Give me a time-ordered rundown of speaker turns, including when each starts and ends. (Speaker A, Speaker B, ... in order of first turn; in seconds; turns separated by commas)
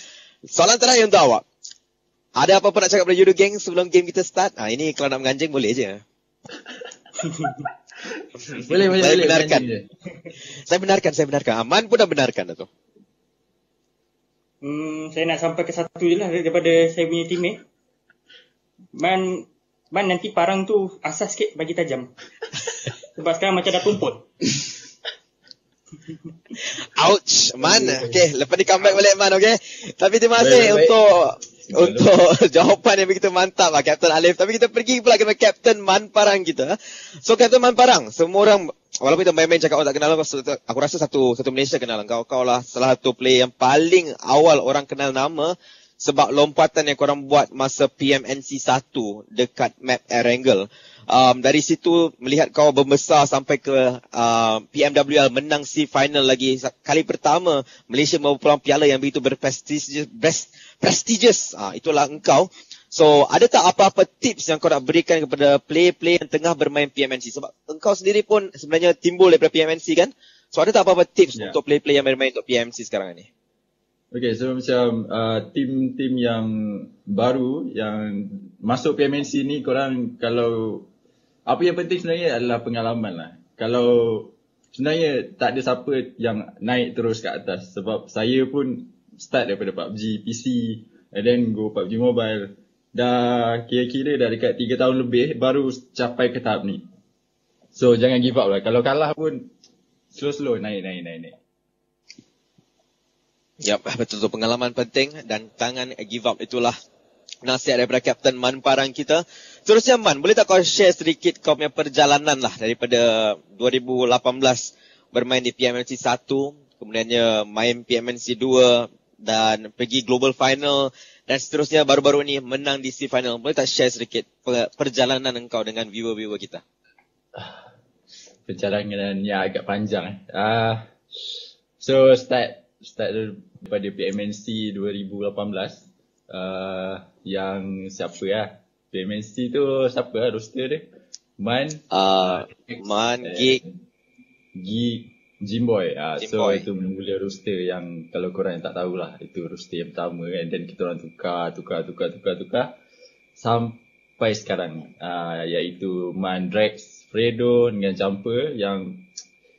Speaker A: 0.5-1.4, Speaker A: 2.4-6.0, Speaker B: 8.5-9.8, Speaker A: 9.0-9.7, Speaker A: 10.6-12.7, Speaker C: 14.6-17.6, Speaker C: 18.9-22.1, Speaker C: 23.2-24.3, Speaker A: 26.6-73.3, Speaker B: 27.6-28.2, Speaker B: 30.4-31.0, Speaker B: 31.6-32.1, Speaker B: 74.1-80.9, Speaker B: 81.5-96.8, Speaker B: 97.7-99.5, Speaker B: 100.1-101.3, Speaker A: 103.6-106.7, Speaker A: 107.4-126.6, Speaker B: 127.3-127.6, Speaker B: 128.5-140.9, Speaker B: 141.4-143.7, Speaker A: 141.9-143.6, Speaker B: 144.6-152.7, Speaker A: 146.2-146.7, Speaker B: 153.4-159.0